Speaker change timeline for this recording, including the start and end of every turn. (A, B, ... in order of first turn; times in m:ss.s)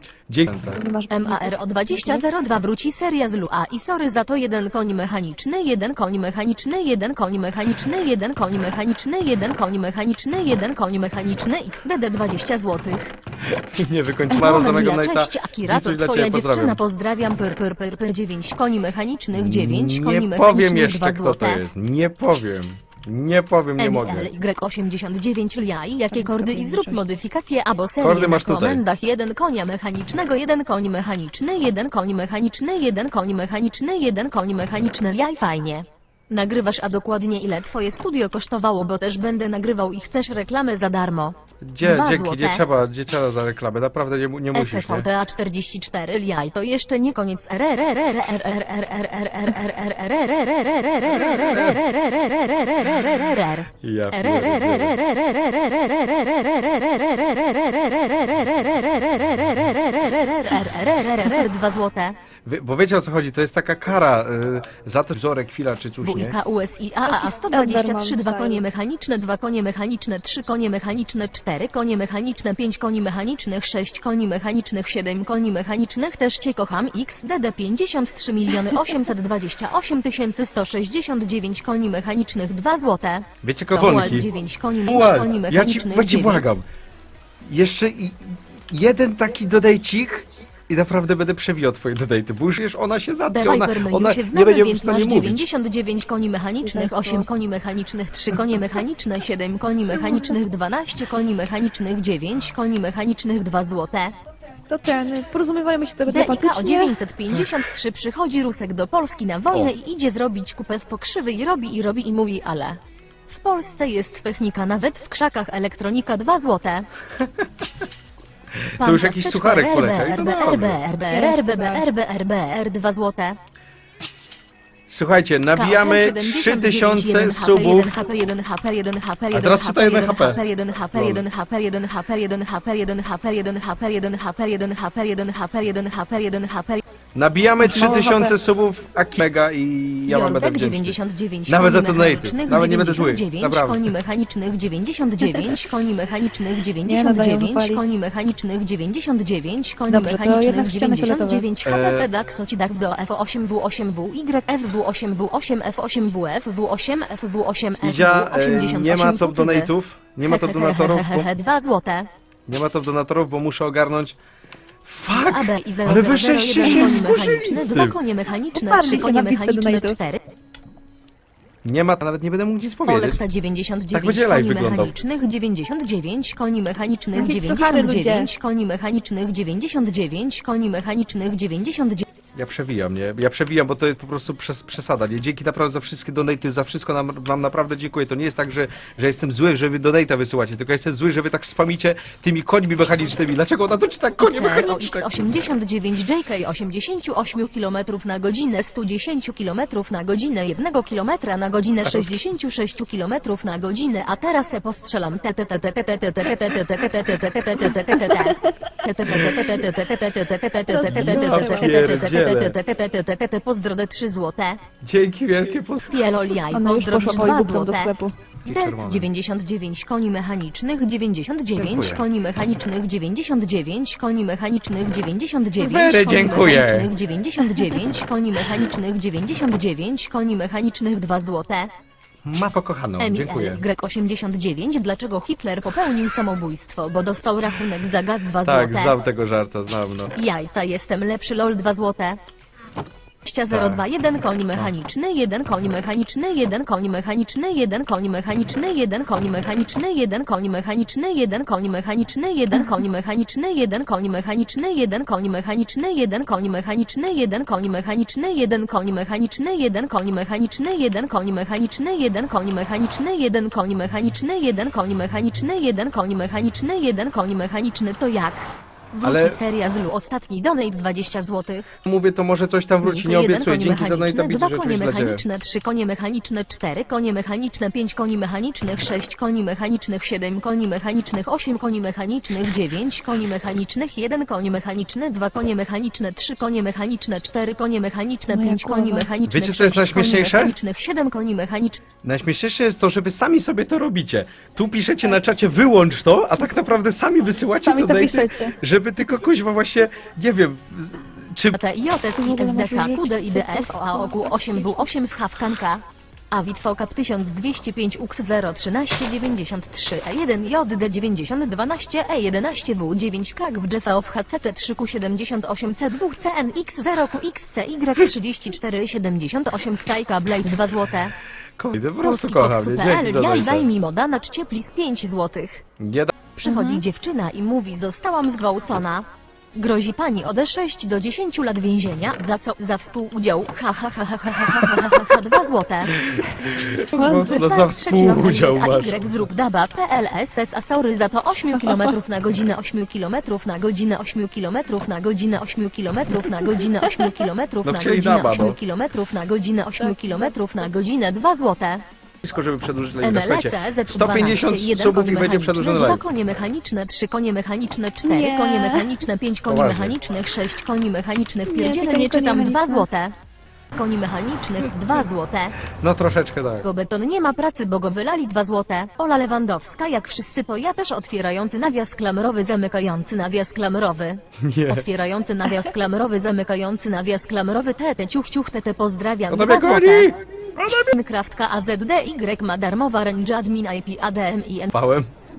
0:00.3-0:00.8 A
0:00.7-0:02.2 B
0:01.1-0:13.1 C
0:13.4-0:16.8 A
0:14.3-0:21.6 C
0:19.3-0:24.3 A
0:23.8-0:42.6 C
0:26.1-0:27.1 B
0:28.0-0:28.8 A
0:41.6-0:45.1 A
0:44.5-1:02.1 C
0:51.3-0:51.7 A
0:53.8-0:55.0 A
1:02.4-1:06.4 A
1:06.0-1:26.4 C
1:07.0-1:08.6 B
1:23.4-1:24.3 A
1:24.8-1:26.6 A
1:27.4-1:35.4 A
1:33.3-1:44.1 C
1:36.6-1:37.2 B
1:44.7-1:47.0 B
1:46.1-1:52.8 C
1:47.3-1:47.6 A
1:53.3-1:56.9 C
1:58.7-2:00.8 A
1:58.8-2:03.4 C
2:01.1-2:01.8 B
2:04.9-2:08.0 A
2:05.5-2:16.8 C
2:09.3-2:10.4 A
2:10.9-2:11.2 A
2:17.1-2:23.9 A
2:17.6-2:18.4 B
2:20.1-2:39.7 C
2:26.8-2:27.9 B
2:29.9-2:31.4 B
2:31.6-2:32.1 A
2:37.8-2:41.3 A
2:40.2-2:42.1 C
2:42.5-2:44.2 A
2:44.8-2:48.0 A
2:45.1-2:50.2 C
2:46.6-2:47.1 B
2:48.5-2:50.0 B
2:51.6-2:53.2 A
2:52.8-3:02.0 C
2:53.9-2:54.9 A
2:57.1-2:58.3 B
3:02.3-3:15.4 A
3:14.2-3:34.6 C
3:21.8-3:22.1 A
3:29.2-3:29.5 A
3:30.7-3:31.9 B
3:30.9-3:32.6 A
3:34.8-3:36.3 A
3:35.9-3:37.9 C
3:36.5-3:38.1 B
3:38.4-3:39.1 A
3:38.5-3:51.7 C
3:41.5-3:42.0 A
3:45.6-3:46.9 A
3:52.2-3:53.6 A
3:53.0-3:58.9 C
3:58.4-4:00.1 A
4:00.1-4:02.2 C
4:03.2-4:31.8 C
4:03.5-4:03.8 A
4:29.0-4:29.4 A
4:31.8-4:35.2 A
4:32.8-4:51.8 C
4:48.3-4:49.1 B
4:49.2-4:50.6 A
4:52.0-5:01.6 A
4:57.6-4:58.6 B
5:01.5-5:21.1 C
5:02.1-5:04.9 B
5:21.6-5:23.7 A
5:22.0-5:25.6 C
5:25.8-5:26.1 A
5:26.3-5:36.0 C
5:26.4-5:26.8 B
5:35.9-5:39.2 A
5:37.0-5:37.3 B
5:37.1-5:51.8 C
5:41.6-5:41.9 B
5:46.8-5:47.2 B
5:47.6-5:48.6 A
5:49.8-5:50.3 B
5:52.2-5:56.0 A
5:53.0-6:03.1 C
5:58.0-5:59.0 B
5:59.5-6:00.0 A
6:01.5-6:02.8 B
6:03.7-6:05.6 C
6:05.8-6:06.6 A
6:06.6-6:20.1 C
6:14.4-6:14.8 A
6:19.3-6:20.9 A
6:20.7-6:24.7 C
6:24.7-6:25.1 A